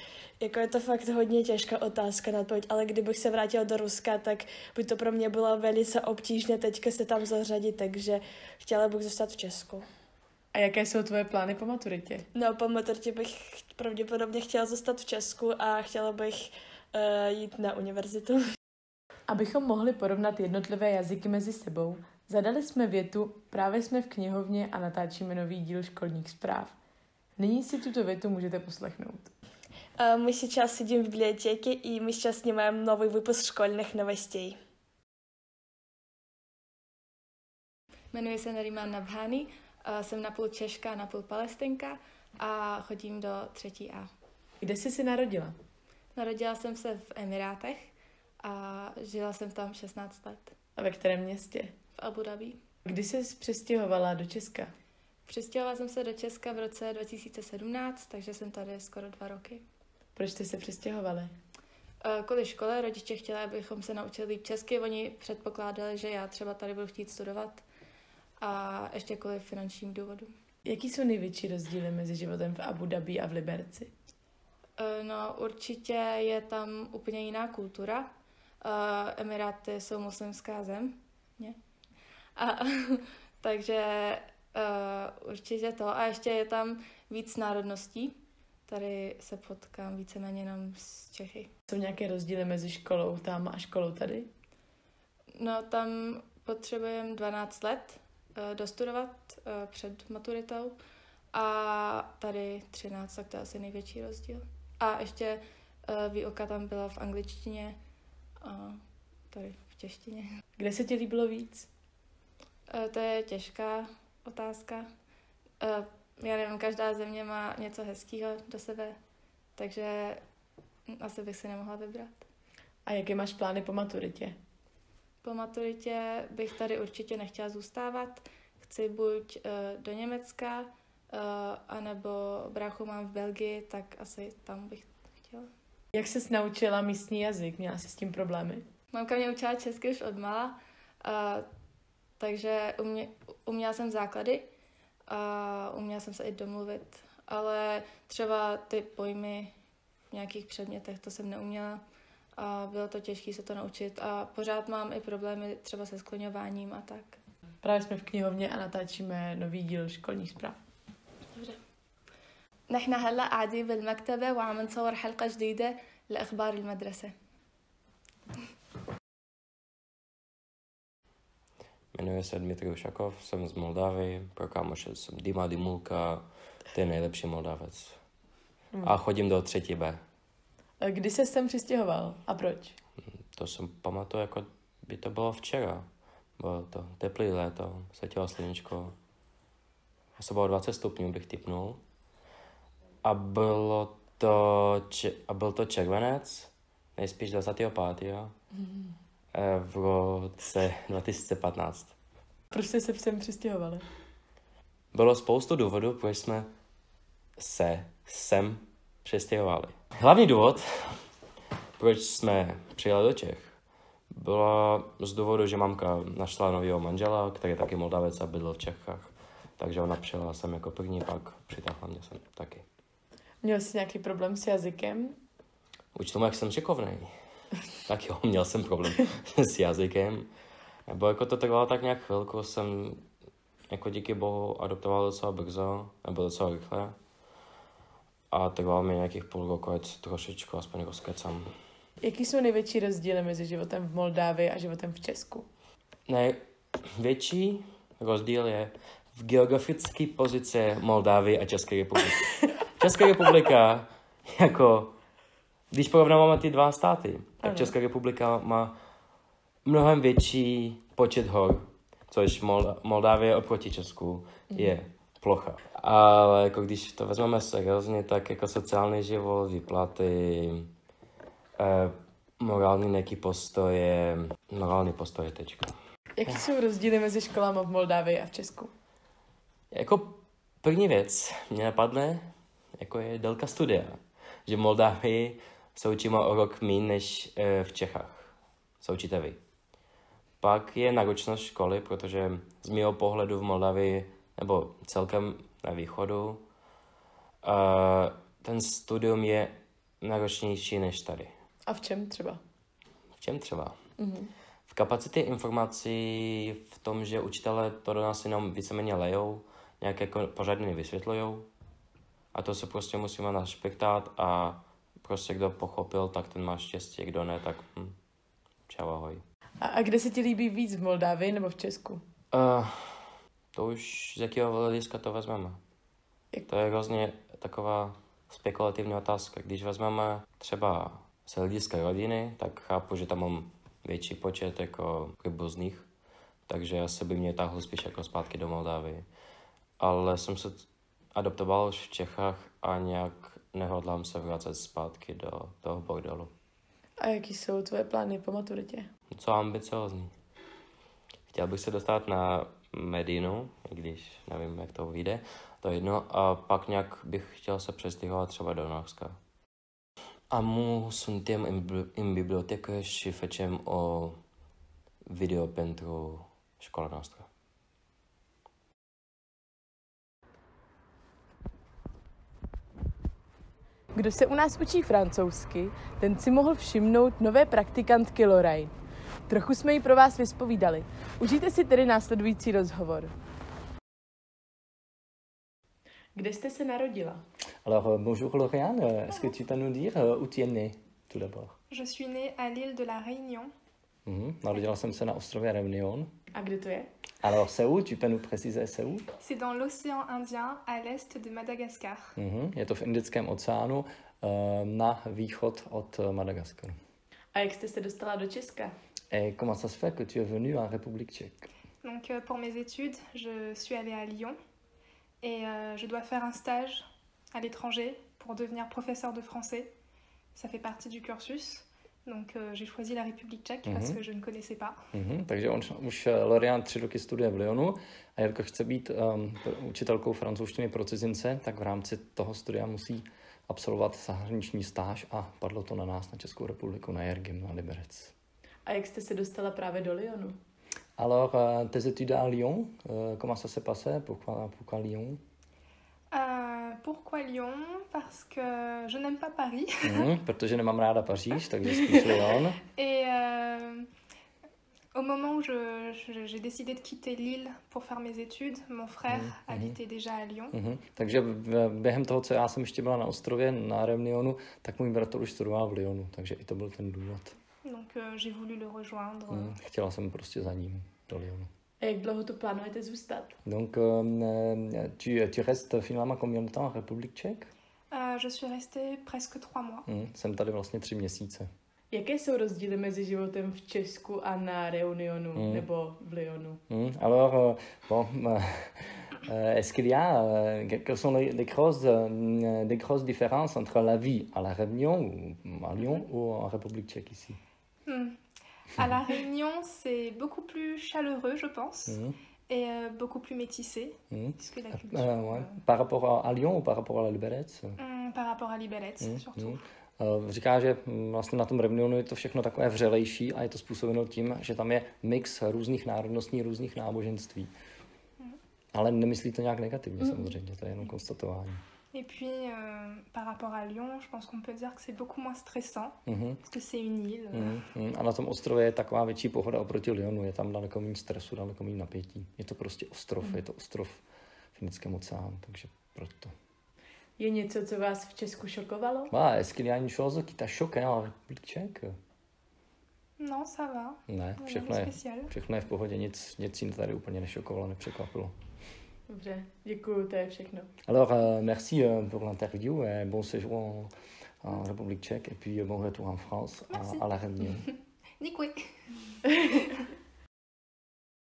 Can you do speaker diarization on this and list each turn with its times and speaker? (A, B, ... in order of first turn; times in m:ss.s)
0:00.4-0:09.8 A
0:10.5-0:12.2 B
0:12.3-0:18.4 A
0:19.3-0:26.7 B
0:27.4-0:29.3 B
0:30.0-0:34.6 A
0:38.1-0:44.1 C
0:44.6-0:45.5 B
0:46.1-0:47.9 C
0:48.4-0:50.5 C
0:50.8-0:51.7 B
0:52.0-0:52.6 C
0:52.8-0:54.7 B
0:55.2-0:59.6 C
1:00.2-1:01.3 B
1:02.0-1:07.6 C
1:08.4-1:10.3 C
1:10.6-1:13.9 B
1:14.8-1:18.1 C
1:18.6-1:21.5 C
1:22.4-1:31.5 C
1:31.7-1:34.3 B
1:35.4-1:40.8 C
1:41.3-1:47.8 C
1:48.4-1:48.8 C
1:49.3-1:50.2 C
1:50.6-1:51.7 B
1:52.7-1:54.9 C
1:55.6-1:59.0 C
1:59.6-2:00.2 C
2:00.9-2:02.2 C
2:02.8-2:04.3 B
2:05.2-2:15.5 C
2:15.9-2:18.6 B
2:18.9-2:21.4 C
2:22.2-2:24.5 C
2:25.1-2:29.5 C
2:30.1-2:31.8 C
2:32.4-2:37.2 C
2:37.6-2:40.6 B
2:42.7-2:47.1 C
2:51.9-2:58.0 D
2:58.8-3:00.0 D
3:00.8-3:02.7 B
3:03.0-3:05.8 D
3:06.4-3:08.9 D
3:10.2-3:11.8 D
3:13.0-3:18.3 D
3:19.3-3:21.9 D
3:22.5-3:23.8 B
3:24.9-3:26.5 D
3:27.4-3:31.0 D
3:31.8-3:33.5 D
3:34.1-3:42.6 D
3:43.4-3:45.1 B
3:45.9-3:47.1 D
3:47.8-3:50.3 D
3:50.9-3:53.0 D
3:53.7-3:57.0 D
3:58.3-4:01.5 D
4:02.0-4:05.4 B
4:06.1-4:06.4 D
4:07.0-4:15.0 D
4:15.7-4:18.8 D
4:17.4-4:17.7 B
4:19.6-4:30.7 D
4:24.5-4:24.8 B
4:31.6-4:35.8 D
4:36.2-4:38.7 B
4:39.7-4:49.4 D
4:50.4-4:56.4 D
4:57.4-5:01.3 D
5:01.7-5:02.4 B
5:03.2-5:03.8 D
5:04.0-5:04.3 B
5:04.7-5:11.5 D
5:12.3-5:18.0 D
5:18.7-5:19.2 D
5:19.6-5:22.0 B
5:22.3-5:25.6 D
5:26.5-5:35.9 D
5:36.5-5:39.0 D
5:39.8-5:46.3 D
5:47.0-5:48.9 B
5:49.1-5:50.1 D
5:51.3-5:59.2 D
6:00.3-6:04.2 D
6:05.1-6:07.3 D
6:13.9-6:18.7 B
6:19.3-6:23.1 B
6:26.1-6:27.2 B
6:27.6-6:31.5 E
6:31.7-6:33.5 F
6:34.0-6:36.1 E
6:36.3-6:36.9 B
6:37.2-6:39.1 E
6:39.2-6:42.1 F
6:42.2-6:46.7 E
6:47.3-6:48.7 B
6:49.1-6:51.5 E
6:51.8-6:54.4 F
6:55.2-6:59.7 F
7:00.3-7:04.8 F
7:03.6-7:04.0 E
7:04.9-7:18.1 E
7:18.6-7:20.4 B
7:21.0-7:25.2 E
7:26.1-7:30.1 F
7:29.8-7:32.6 E
7:32.7-7:33.9 F
7:34.9-7:40.6 F
7:39.1-7:39.8 E
7:40.5-7:47.3 E
7:47.6-7:49.5 F
7:49.3-7:51.5 E
7:51.8-7:53.3 B
7:53.4-7:57.5 E
7:57.9-7:59.9 F
7:59.9-8:01.5 E
8:01.9-8:06.6 B
8:05.3-8:05.6 E
8:06.7-8:17.4 E
8:17.8-8:18.2 F
8:18.8-8:25.6 F
8:21.9-8:22.2 E
8:24.1-8:24.4 E
8:24.9-8:27.8 E
8:27.8-8:29.6 F
8:29.0-8:37.5 E
8:38.7-8:41.6 E
8:40.0-8:40.3 F
8:41.9-8:47.6 F
8:46.0-8:46.4 E
8:47.3-8:54.0 E
8:54.5-8:56.3 E
8:57.2-8:59.1 B
8:59.1-9:01.9 E
9:03.2-9:05.3 F
9:04.1-9:08.3 E
9:09.1-9:10.7 B
9:10.8-9:13.9 E
9:14.4-9:17.6 E
9:16.7-9:19.8 F